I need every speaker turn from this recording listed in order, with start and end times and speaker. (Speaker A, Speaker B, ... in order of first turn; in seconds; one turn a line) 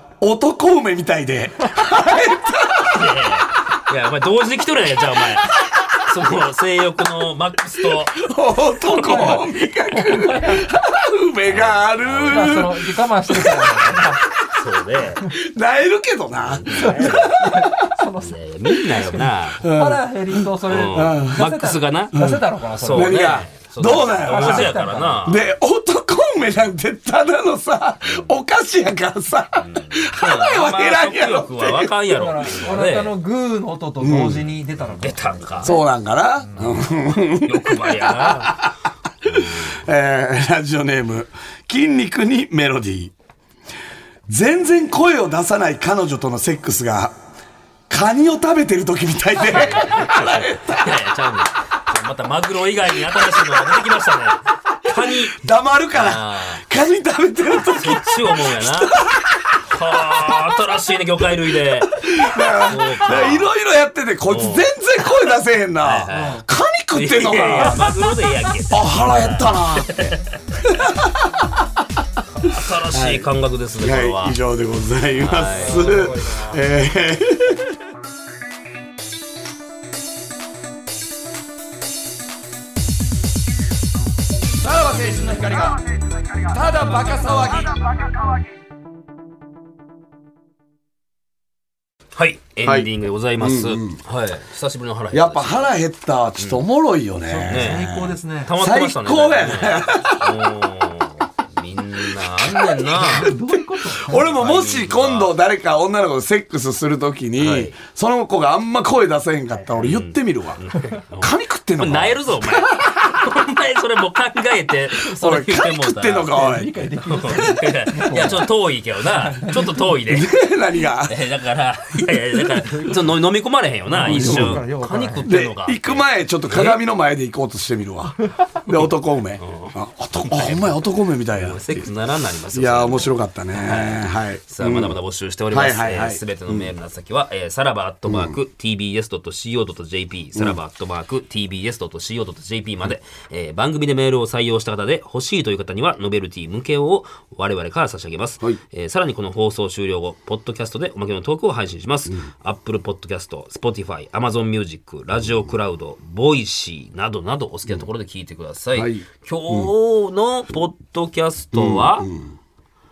Speaker A: 0.2-3.2
Speaker B: 2.9-8.2
Speaker A: 5.6-5.9
Speaker A: 8.1-14.5
Speaker C: 8.9-10.7
Speaker B: 11.5-12.6
Speaker C: 12.3-14.3
Speaker B: 14.5-15.3
Speaker A: 15.3-17.9
Speaker B: 16.4-17.3
Speaker C: 16.8-23.4
Speaker B: 18.2-19.7
Speaker A: 19.6-21.4
Speaker B: 20.7-22.2
Speaker A: 22.1-32.0
Speaker B: 22.7-25.4
Speaker C: 24.2-25.3
Speaker B: 28.1-28.3
Speaker B: 29.6-33.1
Speaker C: 32.1-35.8
Speaker A: 34.0-34.5
Speaker B: 34.8-35.7
Speaker A: 35.6-43.1
Speaker C: 36.4-36.8
Speaker B: 36.6-38.7
Speaker B: 39.3-39.7
Speaker A: 44.3-47.1
Speaker A: 47.9-51.0
Speaker B: 49.5-55.4
Speaker A: 53.1-53.6
Speaker A: 54.9-60.6
Speaker B: 55.9-56.7
Speaker B: 57.5-59.0
Speaker B: 59.7-62.0
Speaker A: 61.8-68.0
Speaker B: 62.6-63.5
Speaker B: 64.3-64.7
Speaker B: 65.8-70.2
Speaker C: 66.1-66.4
Speaker A: 68.7-71.6
Speaker B: 72.4-74.4
Speaker A: 72.5-77.8
Speaker B: 75.2-76.1
Speaker C: 75.5-76.5
Speaker A: 84.6-85.8
Speaker A: 86.4-87.8
Speaker B: 92.2-95.7
Speaker A: 92.6-94.0
Speaker A: 95.1-100.4
Speaker C: 97.2-98.5
Speaker B: 97.5-103.4
Speaker A: 102.2-102.8
Speaker C: 103.0-104.4
Speaker A: 103.5-110.6
Speaker B: 104.1-105.4
Speaker B: 107.4-107.8
Speaker B: 109.8-116.4
Speaker A: 111.2-112.9
Speaker A: 115.0-116.9
Speaker C: 116.3-118.5
Speaker B: 117.1-120.3
Speaker A: 118.1-118.4
Speaker C: 119.1-119.9
Speaker A: 120.1-121.2
Speaker B: 121.1-126.8
Speaker C: 123.9-125.3
Speaker A: 124.0-124.6
Speaker A: 125.2-131.9
Speaker B: 129.4-162.1
Speaker A: 132.5-135.0
Speaker A: 135.5-136.7
Speaker A: 138.1-138.3
Speaker A: 158.8-159.7
Speaker A: 161.5-162.3